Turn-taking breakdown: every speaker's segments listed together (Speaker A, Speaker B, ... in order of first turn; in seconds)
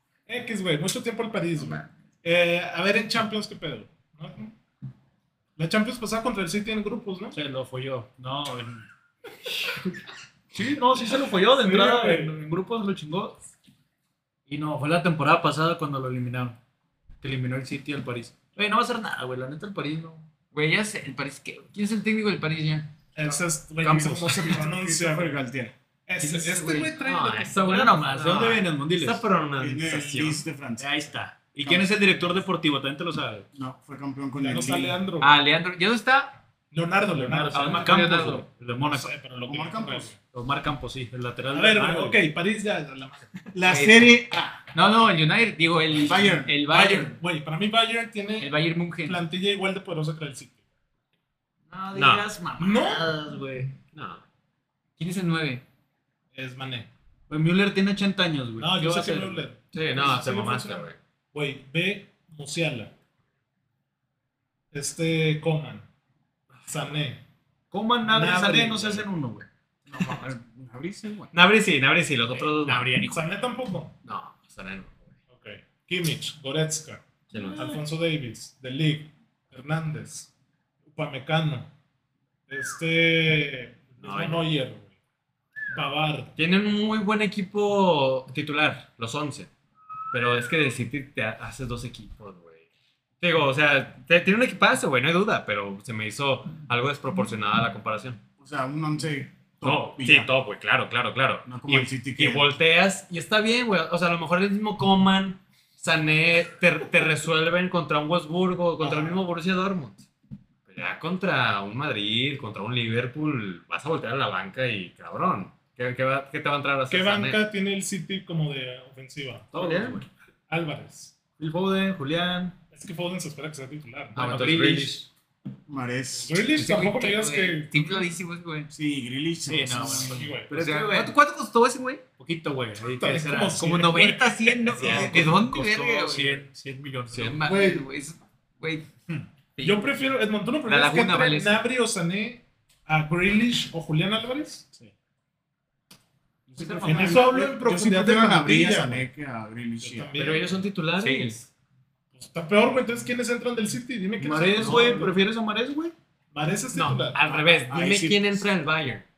Speaker A: 0.3-4.5, 5.6-7.4, 11.5-12.3, 23.1-25.4, 26.1-27.6, 34.4-35.4, 36.7-38.2, 38.8-40.2, 41.5-43.8, 46.6-50.6, 52.6-53.1, 56.3-56.9, 58.6-62.9, 64.7-65.9, 66.7-67.2, 68.1-69.1, 73.0-74.0, 75.3-80.3, 80.9-81.7, 82.5-84.9, 85.7-86.3, 108.8-109.2, 116.9-119.5, 120.5-121.1, 122.7-124.8, 126.2-128.1, 129.9-130.6, 132.9-135.3, 137.4-137.9, 139.1-144.7, 146.8-149.1, 149.8-150.5, 152.1-155.1, 156.3-157.6
Speaker B: 7.3-8.9, 10.5-13.4, 14.5-16.6, 17.2-20.3, 27.6-29.2, 30.8-33.5, 37.1-39.1, 40.3-42.2, 57.3-59.5, 67.7-70.2, 72.4-73.2, 119.5-120.1, 121.4-122.6, 124.2-125.1, 129.5-131.1, 132.2-134.0, 134.7-137.4, 146.6-147.3, 154.2-155.9
Speaker C: 20.5-22.9, 26.2-26.9, 35.2-36.4, 37.5-38.5, 43.6-44.1, 44.7-47.1, 48.4-49.2, 51.7-53.7, 55.0-55.6, 126.5-128.7, 130.5-132.0, 133.6-136.4, 137.3-138.9, 139.6-139.8, 140.7-141.7, 151.0-151.4
Speaker D: 23.8-25.7, 29.6-31.0, 31.6-31.9, 33.5-35.0, 39.5-40.1, 43.5-44.6, 46.0-46.5, 69.9-71.3, 98.4-100.3, 101.5-102.5, 125.7-126.3, 128.7-130.2, 146.5-150.1, 157.7-158.5
Speaker E: 27.0-30.4, 51.9-52.3, 53.9-54.2, 59.7-61.0, 71.3-72.9, 74.0-75.1, 77.3-77.8, 84.0-84.5, 86.4-89.5, 90.1-92.6, 93.2-98.2, 99.6-110.1, 110.7-117.4, 119.6-120.0, 124.1-125.0, 134.8-135.3, 137.1-137.4, 150.2-151.5, 154.6-155.0, 156.7-159.1